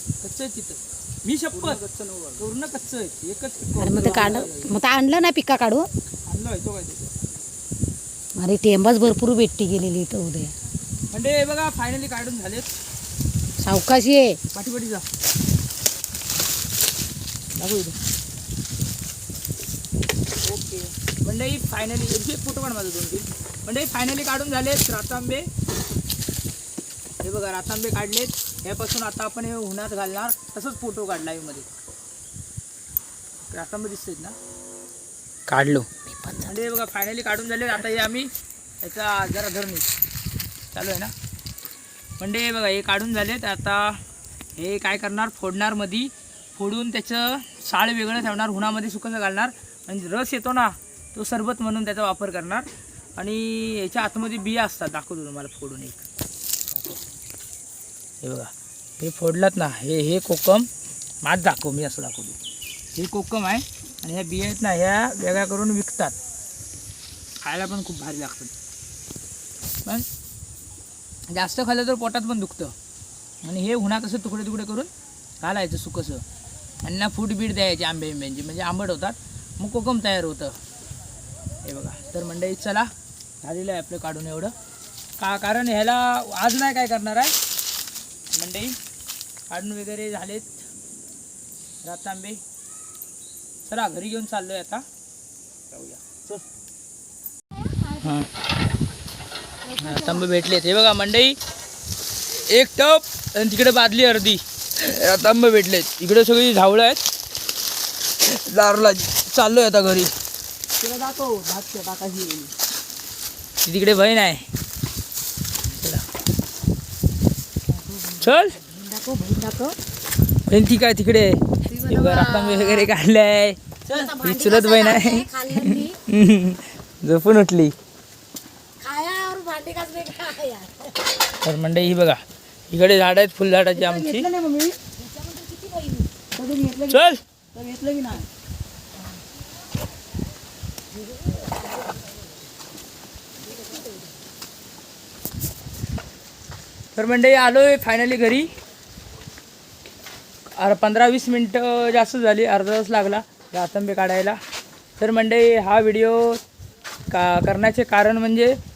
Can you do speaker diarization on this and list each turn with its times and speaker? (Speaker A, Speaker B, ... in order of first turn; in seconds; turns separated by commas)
Speaker A: 0.2-1.8, Speaker B: 1.5-2.4, Speaker A: 2.4-4.7, Speaker C: 3.8-5.9, Speaker A: 6.3-7.2, Speaker C: 8.3-10.5, Speaker A: 11.1-12.7, Speaker C: 13.6-14.4, Speaker A: 14.5-15.0, Speaker A: 17.6-17.9, Speaker B: 20.4-20.9, Speaker A: 21.2-25.5, Speaker A: 27.2-31.6, Speaker A: 33.5-34.4, Speaker A: 35.5-35.9, Speaker C: 36.0-36.6, Speaker A: 36.4-38.3, Speaker A: 38.8-39.9, Speaker A: 40.7-41.1, Speaker A: 42.2-44.0, Speaker A: 44.6-56.0, Speaker A: 58.2-60.7, Speaker A: 61.2-62.4, Speaker A: 62.9-66.2, Speaker A: 67.4-68.5, Speaker A: 71.3-72.7, Speaker A: 73.4-74.9, Speaker A: 75.4-76.2, Speaker A: 76.8-80.5, Speaker A: 81.6-82.9, Speaker A: 83.4-84.5, Speaker A: 85.2-87.3, Speaker A: 88.3-88.8, Speaker A: 89.5-90.5, Speaker A: 91.8-92.4, Speaker A: 93.7-94.8, Speaker C: 97.5-98.2, Speaker A: 98.0-98.3, Speaker C: 99.6-100.3, Speaker A: 99.8-101.3, Speaker A: 102.3-107.0, Speaker A: 108.2-110.1, Speaker B: 110.8-112.5, Speaker A: 113.6-114.4, Speaker A: 115.7-116.0, Speaker C: 117.7-119.8, Speaker A: 118.2-118.6, Speaker A: 120.5-123.6, Speaker C: 121.7-122.9, Speaker C: 123.9-126.0, Speaker A: 124.2-127.7, Speaker C: 128.8-131.0, Speaker A: 131.4-134.3, Speaker B: 133.8-134.8, Speaker C: 135.0-136.1, Speaker B: 136.3-137.0, Speaker A: 136.9-137.2, Speaker B: 137.5-138.2, Speaker A: 146.9-148.5, Speaker A: 150.6-154.4, Speaker A: 155.0-156.4, Speaker A: 157.1-158.6